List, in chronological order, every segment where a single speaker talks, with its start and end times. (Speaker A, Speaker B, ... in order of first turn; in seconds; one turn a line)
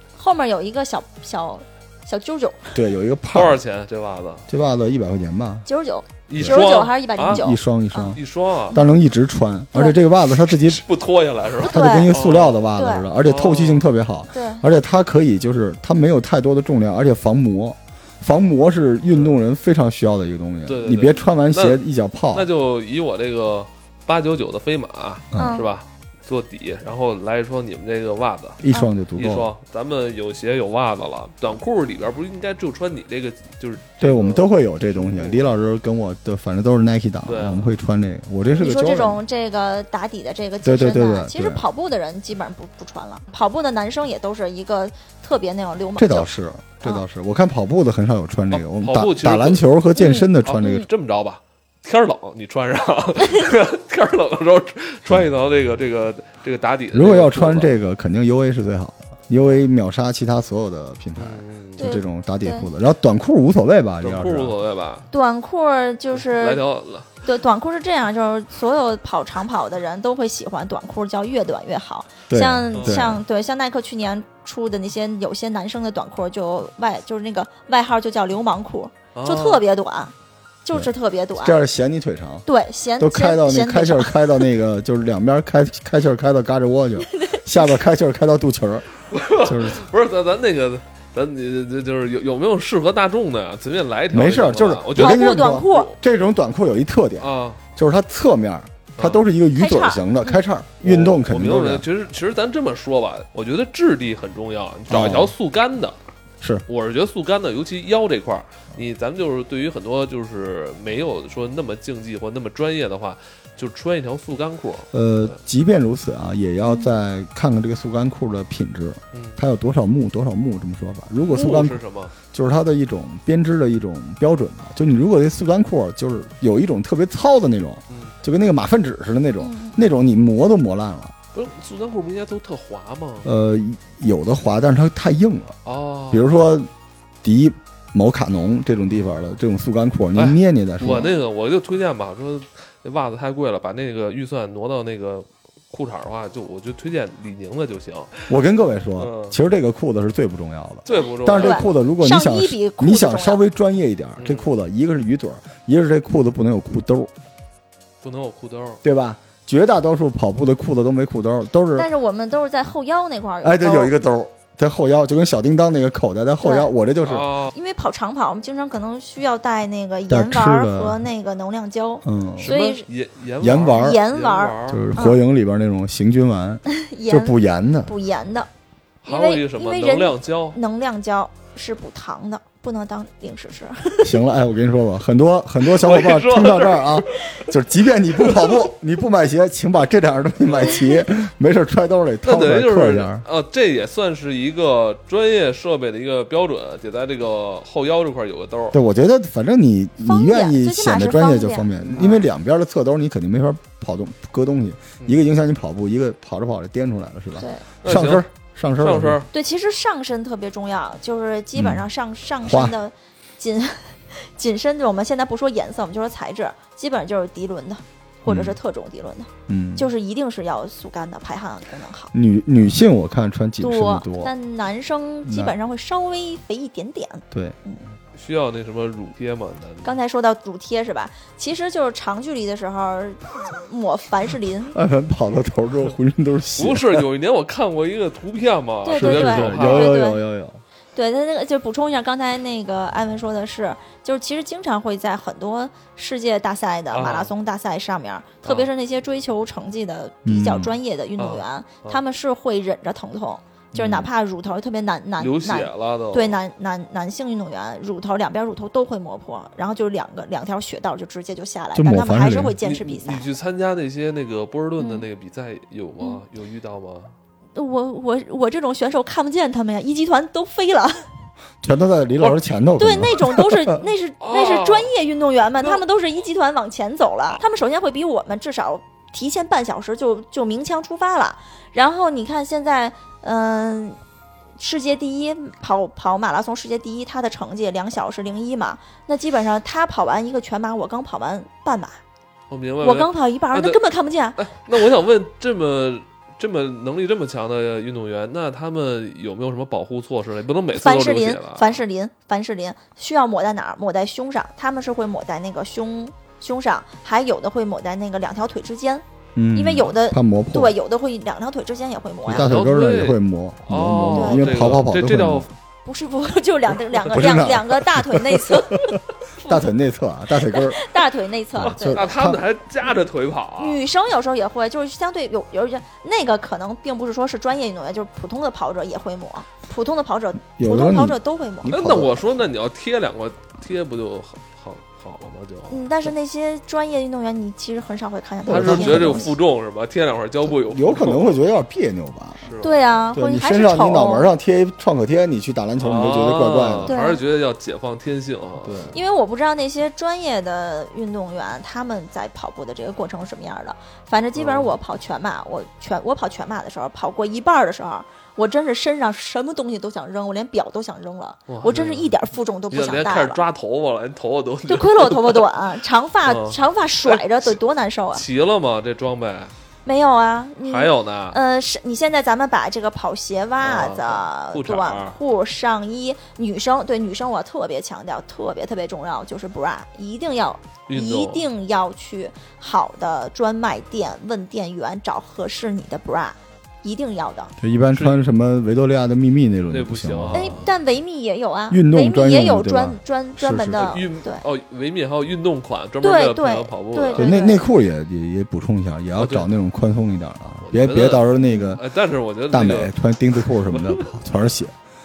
Speaker A: 0.1-2.7
Speaker B: 2.7-3.6
Speaker C: 3.3-4.5
Speaker B: 4.5-5.7
Speaker A: 5.7-8.2
Speaker C: 6.3-7.4
Speaker B: 6.3-6.6
Speaker B: 7.3-10.8
Speaker C: 8.1-8.8
Speaker C: 10.5-12.7
Speaker B: 11.6-22.5
Speaker A: 11.6-12.1
Speaker A: 12.7-13.1
Speaker C: 13.2-13.9
Speaker A: 14.3-14.6
Speaker C: 19.1-19.4
Speaker C: 20.7-21.8
Speaker C: 22.3-28.6
Speaker A: 25.4-25.7
Speaker B: 28.6-29.5
Speaker C: 29.1-35.4
Speaker B: 34.0-39.2
Speaker C: 37.2-37.7
Speaker A: 38.6-46.3
Speaker B: 40.6-41.6
Speaker B: 46.0-50.9
Speaker C: 48.5-49.7
Speaker A: 50.0-50.8
Speaker C: 50.4-57.7
Speaker B: 56.9-64.5
Speaker C: 61.2-62.0
Speaker A: 61.8-62.7
Speaker C: 64.0-65.1
Speaker A: 65.1-66.6
Speaker C: 66.1-67.1
Speaker A: 67.2-81.6
Speaker B: 72.3-73.2
Speaker C: 72.7-73.2
Speaker C: 79.1-79.6
Speaker B: 80.7-82.5
Speaker A: 82.5-84.5
Speaker B: 83.0-89.8
Speaker A: 87.0-87.8
Speaker C: 89.1-95.8
Speaker B: 94.1-101.8
Speaker A: 95.0-95.9
Speaker C: 97.2-97.6
Speaker C: 99.0-99.2
Speaker A: 99.5-100.4
Speaker C: 100.8-106.0
Speaker B: 104.9-105.3
Speaker C: 106.7-115.4
Speaker B: 114.9-131.1
Speaker A: 116.6-116.9
Speaker C: 119.1-119.4
Speaker C: 121.2-122.1
Speaker C: 127.9-128.2
Speaker A: 129.4-129.8
Speaker C: 131.3-133.3
Speaker B: 133.2-135.6
Speaker C: 135.6-136.3
Speaker B: 136.1-136.7
Speaker B: 137.2-141.1
Speaker C: 140.1-148.3
Speaker A: 140.8-141.2
Speaker B: 148.3-157.1
Speaker C: 149.0-149.4
Speaker C: 150.9-151.7
Speaker A: 150.9-153.4
Speaker C: 154.2-154.5
Speaker C: 158.0-158.8
Speaker B: 158.8-161.9
Speaker A: 161.8-163.9
Speaker B: 163.4-167.3
Speaker A: 166.4-166.7
Speaker C: 167.0-167.5
Speaker A: 167.5-172.9
Speaker B: 170.1-171.0
Speaker B: 172.0-172.5
Speaker C: 172.4-174.9
Speaker B: 173.4-174.0
Speaker A: 173.7-175.2
Speaker B: 174.7-177.9
Speaker A: 176.7-178.5
Speaker C: 179.0-180.6
Speaker A: 179.1-184.2
Speaker B: 184.0-193.2
Speaker C: 185.6-187.6
Speaker C: 188.2-188.6
Speaker C: 190.5-190.8
Speaker C: 192.2-198.8
Speaker B: 198.7-209.2
Speaker A: 200.0-202.2
Speaker A: 207.4-207.6
Speaker C: 207.8-208.2
Speaker C: 208.8-209.3
Speaker A: 209.3-222.1
Speaker B: 211.6-211.8
Speaker B: 212.4-212.7
Speaker B: 218.2-218.6
Speaker B: 219.5-219.9
Speaker B: 222.1-224.3
Speaker A: 223.6-227.8
Speaker B: 225.2-225.5
Speaker B: 227.3-227.6
Speaker C: 228.1-230.0
Speaker A: 229.8-234.7
Speaker B: 234.7-237.1
Speaker C: 236.6-239.9
Speaker A: 238.8-240.2
Speaker B: 238.9-240.6
Speaker A: 240.9-263.3
Speaker C: 246.9-247.3
Speaker C: 248.4-248.7
Speaker B: 250.2-250.8
Speaker C: 251.2-252.0
Speaker B: 253.7-254.1
Speaker C: 255.2-256.4
Speaker B: 261.7-262.6
Speaker C: 262.6-267.1
Speaker A: 264.8-265.1
Speaker A: 267.5-271.0
Speaker B: 271.6-273.8
Speaker A: 272.8-284.0
Speaker C: 274.2-274.9
Speaker A: 284.6-292.0
Speaker C: 292.5-293.8
Speaker A: 292.8-294.4
Speaker C: 294.4-301.8
Speaker A: 300.7-312.6
Speaker B: 309.4-310.8
Speaker B: 312.2-315.5
Speaker C: 312.3-315.5
Speaker A: 314.1-314.7
Speaker A: 315.9-319.7
Speaker B: 317.1-320.9
Speaker A: 320.4-322.2
Speaker B: 321.6-322.4
Speaker C: 321.6-323.8
Speaker A: 323.6-331.8
Speaker B: 330.6-332.2
Speaker C: 331.6-336.1
Speaker A: 335.7-339.3
Speaker B: 338.5-339.4
Speaker C: 338.5-341.4
Speaker B: 340.4-342.5
Speaker C: 342.4-342.8
Speaker A: 342.6-344.3
Speaker B: 343.1-346.9
Speaker C: 345.8-348.9
Speaker A: 346.9-347.2
Speaker B: 348.6-349.0
Speaker A: 348.9-363.4
Speaker C: 354.4-354.7
Speaker C: 361.5-362.1
Speaker C: 362.7-365.4
Speaker A: 364.7-368.2
Speaker C: 366.2-367.5
Speaker C: 368.1-369.5
Speaker A: 369.9-387.5
Speaker C: 370.6-371.4
Speaker C: 373.6-375.1
Speaker C: 380.9-381.4
Speaker B: 387.6-390.6
Speaker C: 387.9-388.2
Speaker C: 389.7-390.7
Speaker A: 390.3-394.4
Speaker B: 391.7-394.0
Speaker C: 393.8-397.4
Speaker A: 396.0-397.6
Speaker B: 397.1-401.8
Speaker C: 399.2-399.5
Speaker C: 400.6-404.1
Speaker A: 401.4-401.8
Speaker B: 402.5-404.7